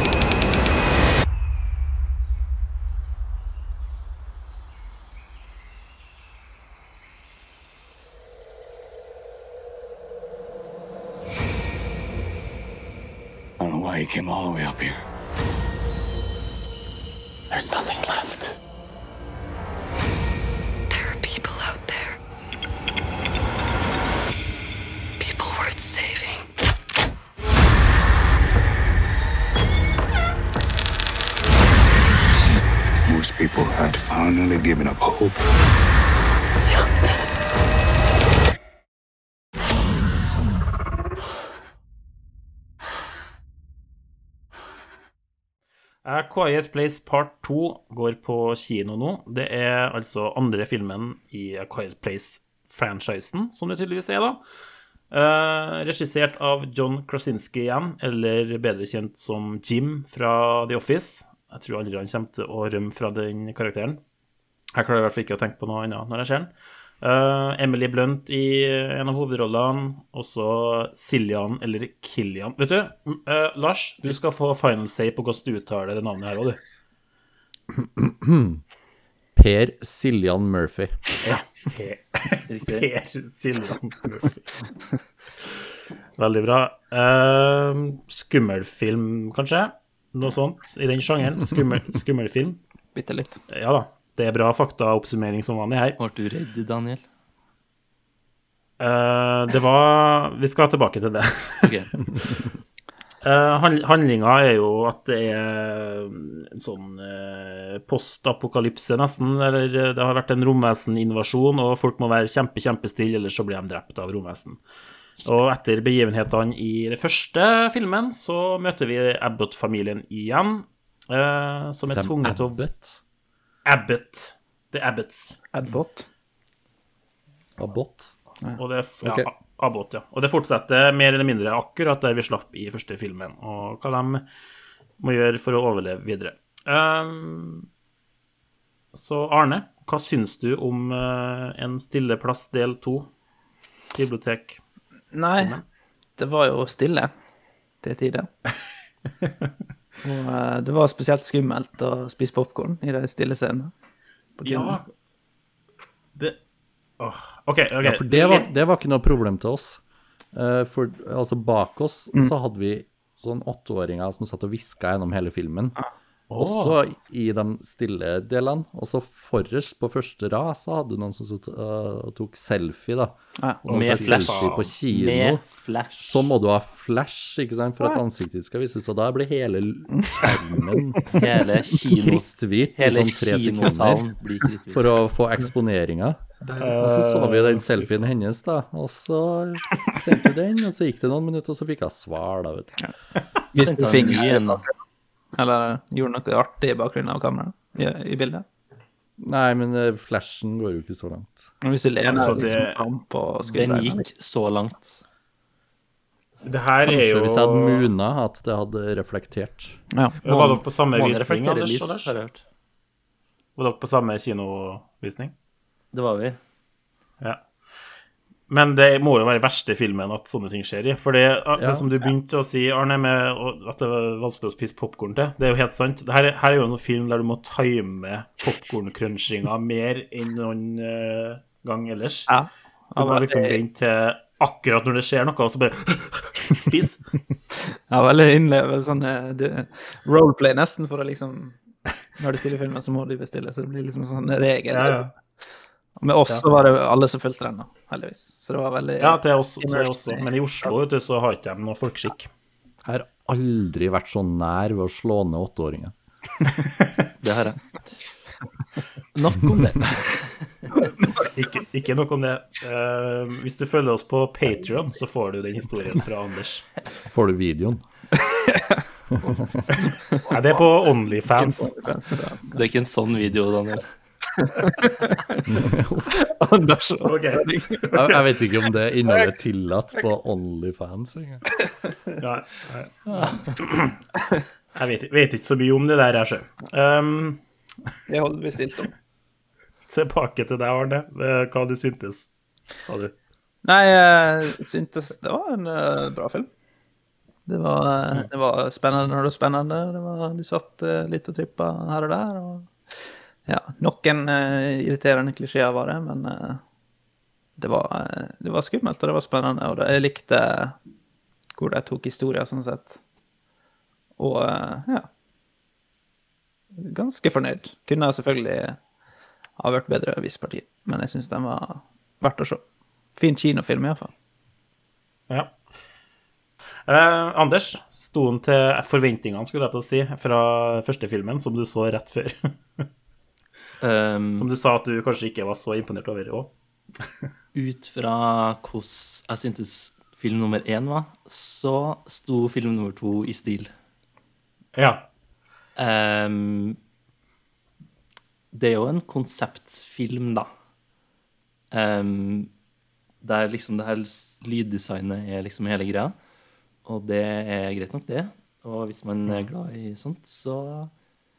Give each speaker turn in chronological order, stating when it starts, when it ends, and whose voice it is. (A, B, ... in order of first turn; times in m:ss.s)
0:13.6-0:14.9 A
0:17.5-0:18.4 A
0:20.9-0:22.2 B
0:25.2-0:26.4 B
0:33.0-0:35.4 C
0:36.6-0:37.1 B
0:46.0-0:54.4 D
0:55.1-1:04.0 D
1:04.7-1:16.6 D
1:17.7-1:18.6 E
1:19.4-1:21.2 E
1:21.2-1:24.7 D
1:22.5-1:22.9 F
1:26.2-1:32.6 D
1:32.9-1:33.4 G
1:33.5-1:36.0 D
1:36.0-1:37.0 F
1:38.8-1:41.7 D
1:41.6-1:41.9 F
1:43.2-1:54.6 D
1:55.2-2:02.6 D
2:01.9-2:03.0 E
2:03.6-2:05.4 D
2:05.5-2:06.0 G
2:07.6-2:08.1 E
2:08.4-2:09.3 G
2:08.5-2:14.2 D
2:15.0-2:17.6 D
2:18.9-2:23.1 D
2:23.9-2:24.6 D
2:25.1-2:25.6 G
2:25.4-2:25.6 D
2:26.2-2:27.1 G
2:27.8-2:28.3 G
2:30.0-2:33.7 G
2:34.4-2:34.8 G
2:34.4-2:34.9 D
2:37.0-2:38.5 D
2:37.8-2:39.8 E
2:40.3-2:45.8 E
2:46.3-2:46.7 D
2:46.4-2:55.4 E
2:53.6-2:54.7 D
2:53.7-2:56.3 F
2:56.0-3:01.2 E
2:59.9-3:00.2 G
3:01.1-3:04.9 F
3:01.8-3:04.0 E
3:04.7-3:06.2 E
3:06.4-3:06.7 G
3:06.6-3:08.0 D
3:06.8-3:12.8 E
3:13.5-3:14.8 G
3:13.6-3:14.6 F
3:15.3-3:18.4 G
3:19.2-3:21.5 E
3:21.6-3:24.0 G
3:22.1-3:22.8 D
3:23.5-3:25.0 F
3:26.4-3:27.9 D
3:26.8-3:29.8 E
3:30.2-3:32.1 D
3:30.2-3:32.4 F
3:33.6-3:35.3 D
3:35.9-3:36.4 F
3:37.2-3:37.5 D
3:38.5-3:52.3 D
3:41.5-3:41.9 E
3:52.3-3:53.6 G
3:52.9-3:57.2 D
3:57.9-4:01.6 G
4:02.2-4:05.0 G
4:04.7-4:05.1 D
4:06.0-4:10.3 G
4:09.0-4:12.3 D
4:12.8-4:15.9 E
4:17.2-4:17.9 F
4:19.1-4:20.7 F
4:21.2-4:26.7 D
4:27.1-4:27.8 E
4:28.2-4:28.8 G
4:29.3-4:29.6 E
4:30.2-4:31.7 D
4:31.2-4:32.6 G
4:32.5-4:33.9 F
4:34.3-4:35.4 G
4:35.4-4:36.2 E
4:36.1-4:38.2 G
4:37.0-4:38.2 D
4:37.9-4:41.4 E
4:42.2-4:44.0 D
4:44.7-4:47.4 D
4:48.1-4:48.9 G
4:49.9-4:53.1 D
4:53.6-4:56.5 G
4:57.5-5:02.7 G
5:03.4-5:06.6 G
5:07.6-5:10.8 G
5:11.6-5:13.0 G
5:14.2-5:15.1 G
5:16.7-5:18.8 G
5:19.6-5:22.6 G
5:23.2-5:24.1 G
5:25.3-5:25.6 D
5:26.9-5:32.8 D
5:33.8-5:34.5 F
5:34.4-5:36.5 D
5:37.5-5:43.7 F
5:44.7-5:45.1 D
5:45.8-5:46.8 F
5:48.5-5:50.5 F
5:51.7-5:52.5 F
5:53.2-5:56.1 F
5:56.8-6:00.9 F